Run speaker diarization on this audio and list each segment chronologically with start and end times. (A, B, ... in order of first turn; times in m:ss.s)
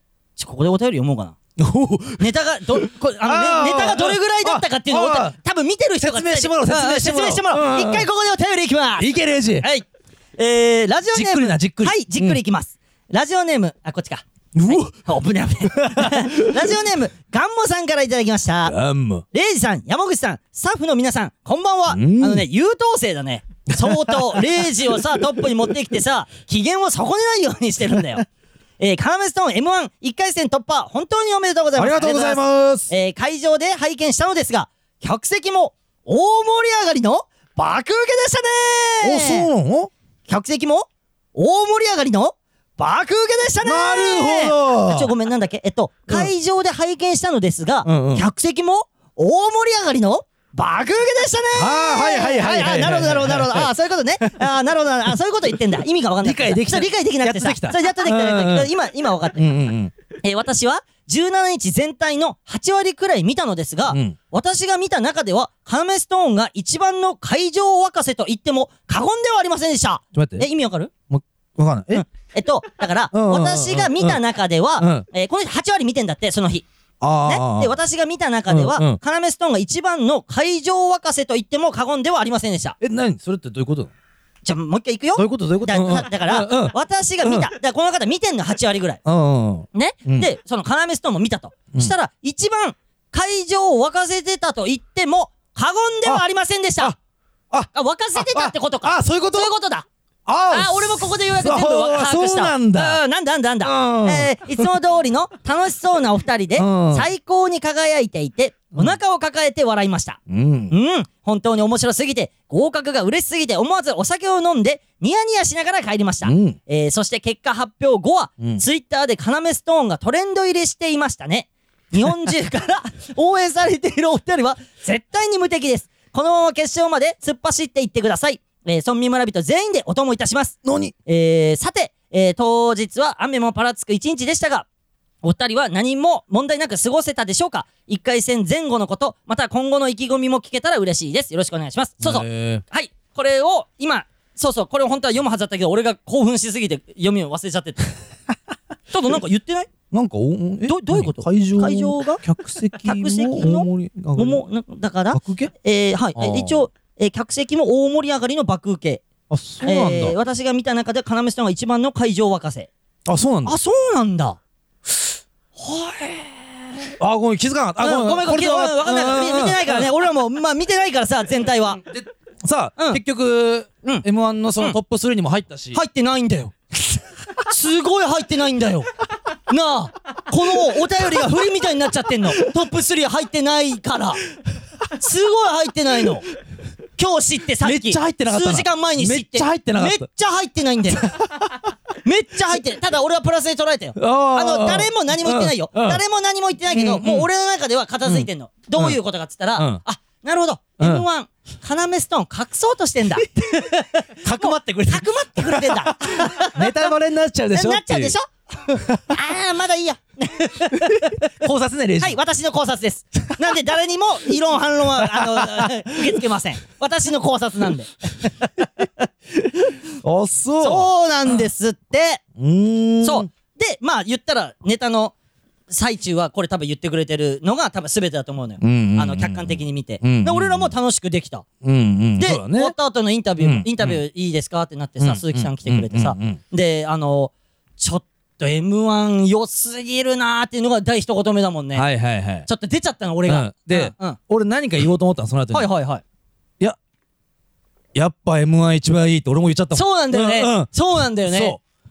0:00.4-0:01.4 A
0:01.6-0:05.4 B
0:02.2-0:09.9 A
0:06.0-0:08.1 B
0:09.0-0:09.7 B
0:10.4-0:18.8 A
0:11.1-0:12.4 B
0:14.6-0:15.1 B
0:15.6-0:16.8 B
0:18.7-0:19.2 B
0:19.3-0:28.2 A
0:21.9-0:22.5 B
0:23.8-0:24.5 B
0:28.8-0:39.5 A
0:31.8-0:32.9 B
0:39.0-0:39.9 B
0:40.3-0:59.4 A
0:43.6-0:45.1 B
0:47.8-0:48.3 B
0:51.6-0:53.7 B
0:56.2-0:58.7 B
0:59.4-0:59.9 B
1:00.2-1:10.9 A
1:03.9-1:04.2 B
1:10.1-1:10.5 B
1:11.1-1:12.0 B
1:11.9-1:16.7 A
1:13.1-1:14.2 B
1:14.8-1:15.0 B
1:17.0-1:17.7 B
1:17.2-1:22.8 A
1:18.5-1:19.0 B
1:22.8-1:23.9 B
1:24.4-1:29.0 A
1:25.2-1:27.5 B
1:29.0-1:30.3 B
1:29.7-1:37.0 A
1:37.5-1:39.5 B
1:37.7-1:39.9 A
1:40.3-1:43.0 B
1:40.5-1:50.2 A
1:43.6-1:44.7 B
1:46.6-1:47.1 B
1:50.3-1:50.7 B
1:50.7-2:14.7 A
1:56.2-1:56.6 B
2:10.6-2:10.9 B
2:15.2-2:27.9 A
2:22.0-2:22.6 B
2:28.9-2:29.7 A
2:29.9-2:34.4 B
2:30.7-2:32.2 A
2:32.8-2:39.0 A
2:35.1-2:35.5 B
2:36.2-2:36.7 B
2:39.3-2:40.2 B
2:39.6-2:42.7 A
2:43.1-2:43.6 B
2:43.4-2:44.4 A
2:45.6-2:46.9 A
2:47.0-2:49.9 B
2:47.8-2:51.8 A
2:51.8-2:55.8 B
2:55.7-2:56.6 A
2:57.5-2:58.9 A
2:59.5-3:04.2 A
3:05.0-3:06.2 A
3:07.0-3:11.1 A
3:07.6-3:10.1 B
3:11.0-3:11.6 B
3:12.0-3:26.7 A
3:14.0-3:16.0 B
3:16.7-3:17.3 B
3:18.0-3:19.0 B
3:19.6-3:19.8 B
3:20.8-3:21.0 B
3:24.2-3:28.2 B
3:27.5-3:28.3 A
3:28.7-3:29.2 B
3:29.1-3:31.3 A
3:30.8-3:32.2 B
3:32.0-3:39.1 A
3:35.0-3:36.2 B
3:40.0-3:41.4 B
3:40.6-3:42.2 A
3:42.4-3:43.3 B
3:43.0-3:45.1 A
3:45.7-3:51.4 A
3:48.6-3:50.7 B
3:51.6-3:52.8 B
3:52.2-4:01.9 A
3:53.4-3:54.0 B
3:55.0-3:56.4 B
4:01.7-4:02.5 B
4:02.5-4:04.2 A
4:03.3-4:05.7 B
4:05.5-4:06.0 A
4:08.0-4:11.6 B
4:09.7-4:11.6 A